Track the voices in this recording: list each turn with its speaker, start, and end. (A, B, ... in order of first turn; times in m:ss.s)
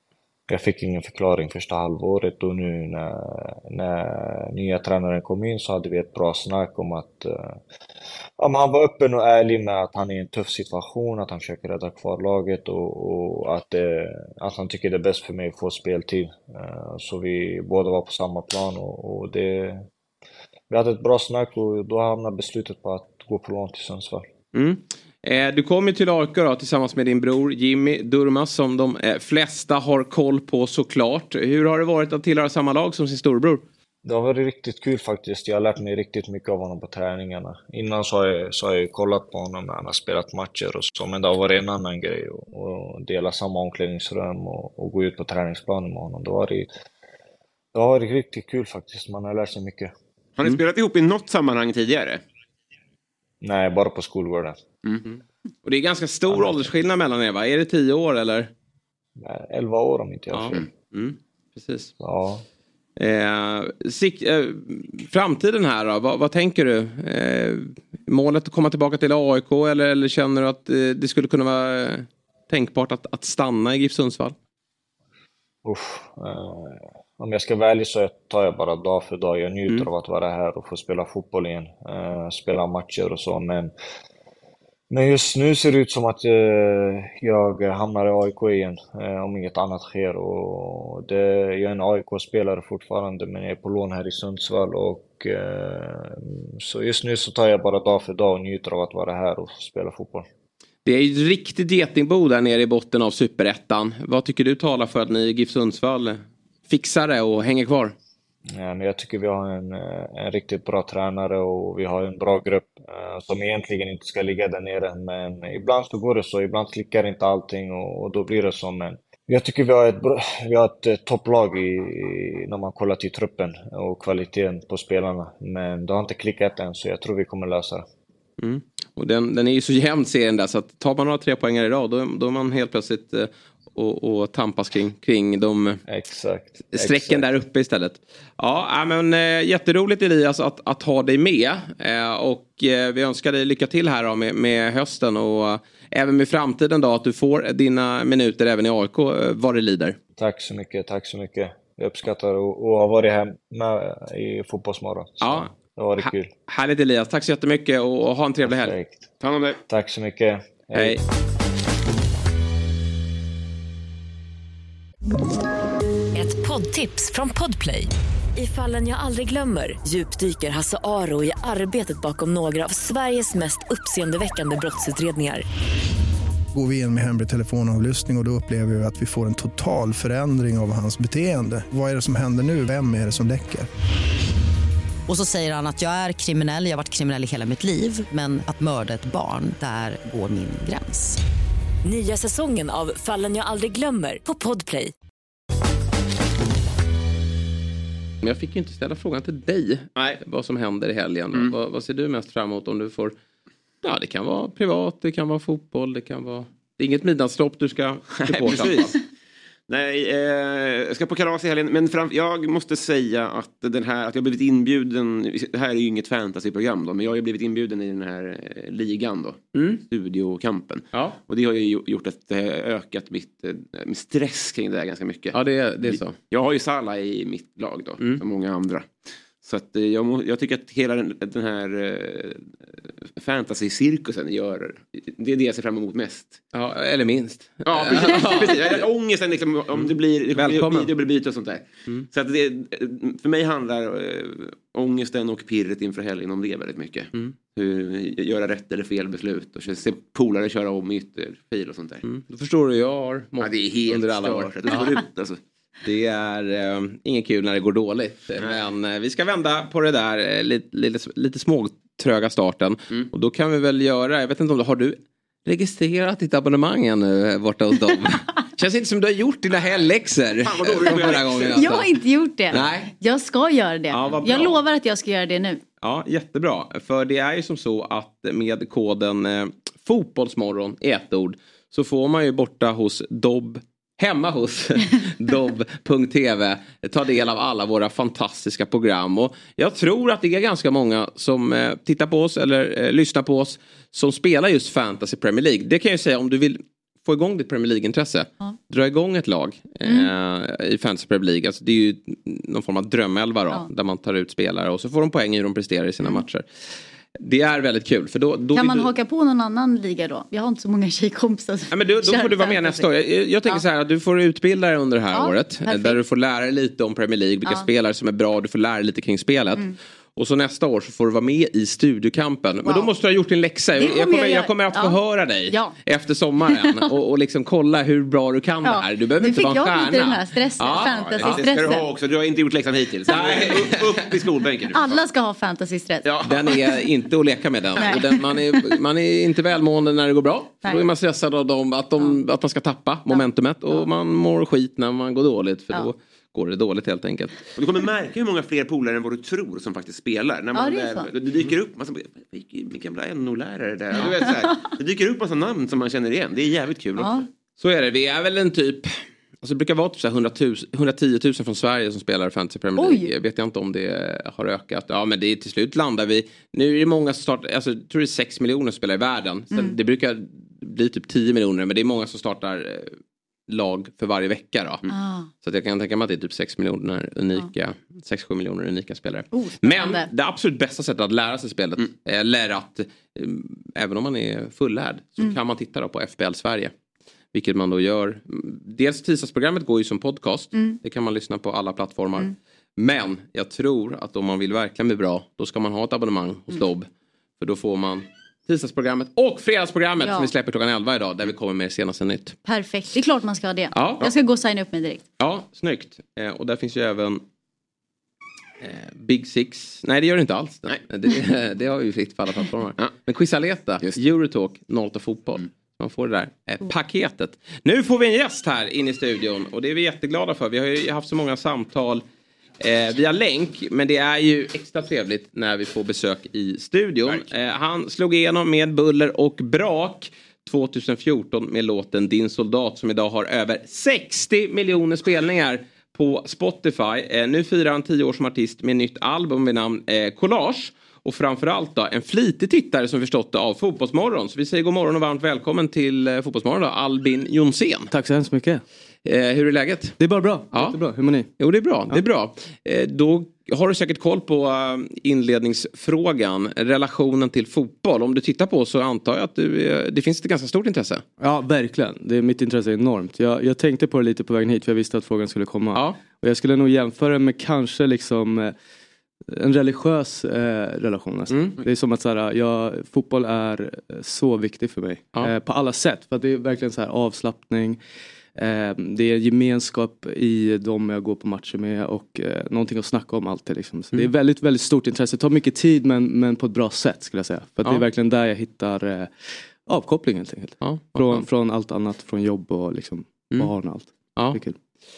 0:00.5-0:07.6 A
0:08.4-0:19.9 A
0:20.7-0:24.2 A
0:24.5-0:33.6 B
0:34.0-0:46.7 A
0:47.7-0:49.9 A
0:50.4-0:52.2 C
0:53.4-0:54.6 A
0:55.6-0:58.5 B
0:56.3-0:56.7 A
0:59.2-1:00.7 A
1:00.3-1:01.9 B
1:02.0-1:02.4 A
1:03.0-1:14.3 B
1:15.6-1:23.7 A
1:24.9-1:40.2 A
1:40.8-1:47.9 B
1:48.5-2:07.8 A
2:08.4-2:15.8 B
2:15.9-2:17.3 A
2:16.7-2:30.0 B
2:30.1-2:36.3 A
2:35.2-2:38.7 B
2:38.4-2:39.0 A
2:39.2-2:39.6 C
2:39.7-2:41.0 A
2:40.7-2:41.0 B
2:46.1-2:55.4 D
2:56.5-3:03.7 E
3:05.1-3:11.2 F
3:11.8-3:14.9 D
3:18.2-3:23.1 B
3:23.8-3:28.9 B
3:28.2-3:28.9 C
3:29.7-3:52.5 C
3:39.5-3:39.8 B
3:40.9-3:41.2 B
3:45.3-3:46.2 B
3:53.1-3:56.4 C
3:56.5-3:58.8 B
3:57.6-4:12.0 C
3:59.7-4:00.9 B
4:12.0-4:15.0 B
4:13.4-4:15.4 C
4:15.8-4:31.9 B
4:30.4-4:31.6 C
4:31.5-4:35.6 G
4:32.5-4:32.9 B
4:33.9-4:34.6 B
4:35.8-5:08.9 B
4:59.8-5:00.1 G
5:08.5-5:12.9 G
5:11.7-5:19.6 B
5:15.1-5:16.0 G
5:20.2-5:31.8 B
5:23.8-5:25.7 G
5:28.6-5:31.8 G
5:30.9-5:35.0 C
5:33.1-5:34.2 B
5:34.7-5:36.5 G
5:36.0-5:36.8 C
5:36.2-5:47.3 B
5:37.8-5:38.1 G
5:43.1-5:43.8 G
5:47.6-5:57.2 C
5:50.5-5:51.1 G
5:57.0-5:57.2 G
5:57.6-6:12.9 B
6:02.8-6:03.1 G
6:13.5-6:14.8 B
6:14.9-6:15.3 G
6:15.4-6:26.7 B
6:19.3-6:20.1 G
6:27.3-6:36.9 B
6:37.4-6:42.4 B
6:40.0-6:40.3 G
6:42.4-6:45.0 G
6:43.7-6:44.1 B
6:45.2-6:47.2 B
6:48.6-7:02.0 B
7:02.6-7:27.9 B
7:27.9-7:28.6 H
7:29.0-7:30.0 B
7:30.0-7:31.3 H
7:30.5-7:30.8 B
7:31.4-7:41.0 B
7:41.2-7:48.5 H
7:45.7-7:46.0 B
7:49.3-7:57.8 H
7:51.3-7:51.6 B
7:58.4-8:09.1 H
8:09.6-8:14.6 H
8:10.6-8:11.2 B